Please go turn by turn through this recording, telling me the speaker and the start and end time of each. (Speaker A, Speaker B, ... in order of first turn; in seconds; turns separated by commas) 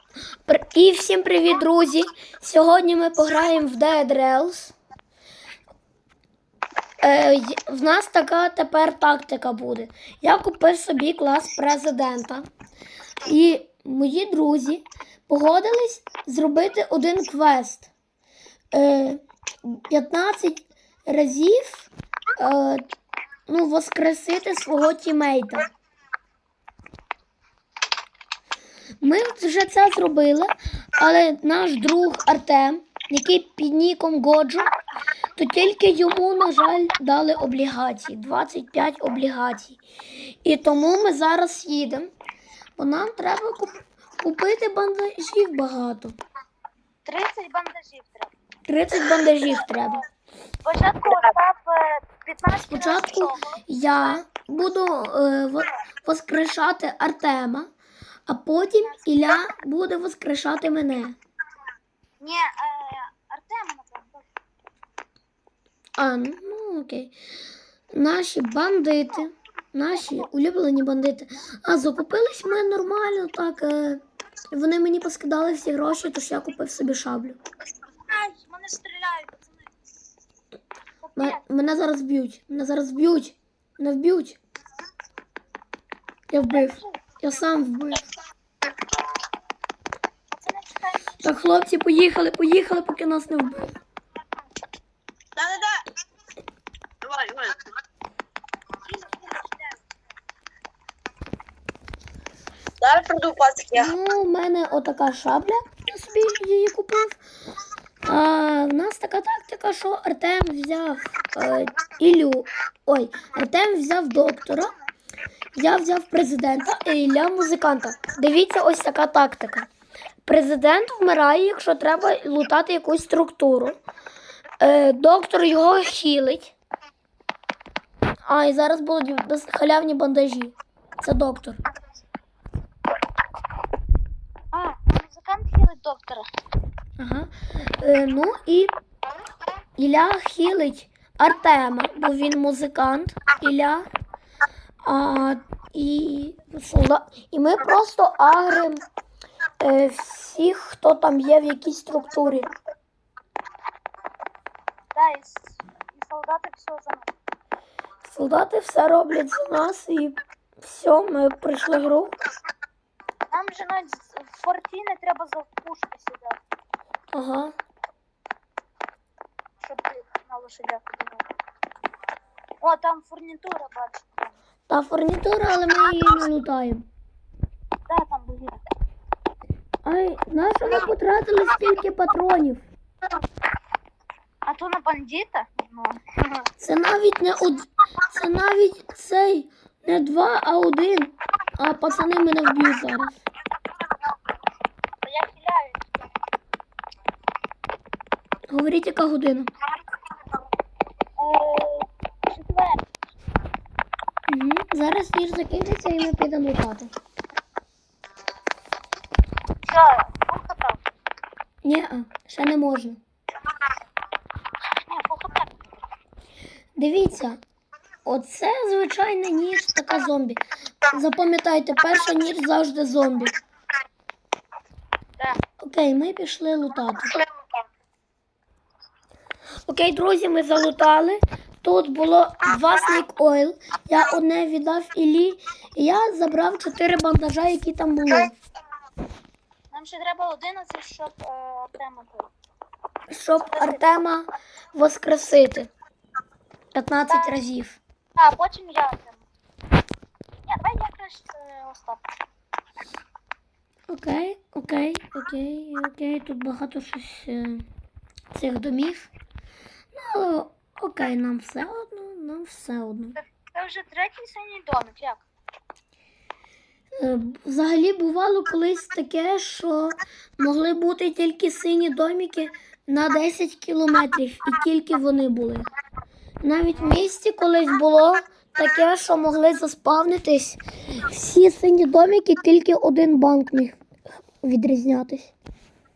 Speaker A: 0.5-4.8, Speaker A: 7.0-12.4, Speaker A: 13.2-17.9, Speaker A: 18.7-22.8, Speaker A: 23.5-25.7, Speaker A: 29.0-34.7, Speaker A: 35.4-42.1, Speaker A: 42.8-46.2, Speaker B: 47.0-48.3, Speaker A: 48.7-50.0, Speaker B: 49.4-50.0, Speaker B: 50.6-53.5, Speaker A: 52.7-57.7, Speaker A: 58.3-61.2, Speaker B: 62.2-64.2, Speaker A: 66.0-67.1, Speaker A: 67.9-77.4, Speaker B: 78.1-79.7, Speaker B: 81.0-81.4, Speaker A: 81.2-84.4, Speaker A: 86.3-88.1, Speaker B: 86.5-87.0, Speaker B: 90.3-91.2, Speaker A: 91.2-93.7, Speaker C: 95.3-95.8, Speaker C: 97.0-97.5, Speaker B: 98.8-99.8, Speaker C: 102.8-103.9, Speaker A: 103.7-107.2, Speaker A: 108.0-114.7, Speaker A: 115.5-119.7, Speaker A: 120.2-123.8, Speaker A: 124.6-126.5, Speaker A: 128.2-131.6, Speaker B: 134.5-136.2, Speaker A: 137.0-138.7, Speaker A: 139.8-143.9, Speaker A: 144.8-148.8, Speaker A: 149.6-152.5, Speaker B: 154.9-157.1, Speaker A: 158.0-162.2, Speaker B: 163.3-166.4, Speaker A: 167.1-167.5, Speaker B: 169.6-171.3, Speaker B: 172.6-174.4, Speaker A: 174.7-176.8, Speaker B: 177.9-178.6, Speaker A: 179.8-182.7, Speaker B: 184.4-186.4, Speaker A: 186.6-193.2, Speaker B: 195.0-195.8, Speaker A: 198.5-199.5, Speaker B: 201.2-202.8, Speaker A: 204.3-206.9, Speaker B: 209.6-210.8, Speaker A: 211.6-213.0, Speaker B: 214.8-215.7, Speaker A: 216.8-217.4, Speaker A: 218.0-223.3, Speaker A: 225.6-227.2, Speaker A: 229.7-238.3, Speaker B: 239.7-242.3, Speaker A: 243.1-245.7, Speaker B: 243.5-243.9, Speaker A: 246.7-247.8, Speaker B: 247.1-247.3, Speaker B: 248.2-249.2, Speaker B: 250.5-252.0, Speaker A: 253.9-257.6, Speaker A: 258.3-259.1, Speaker A: 259.9-263.2, Speaker B: 263.2-265.2, Speaker A: 267.0-275.6, Speaker A: 276.4-283.8, Speaker B: 276.8-277.0, Speaker A: 284.4-285.3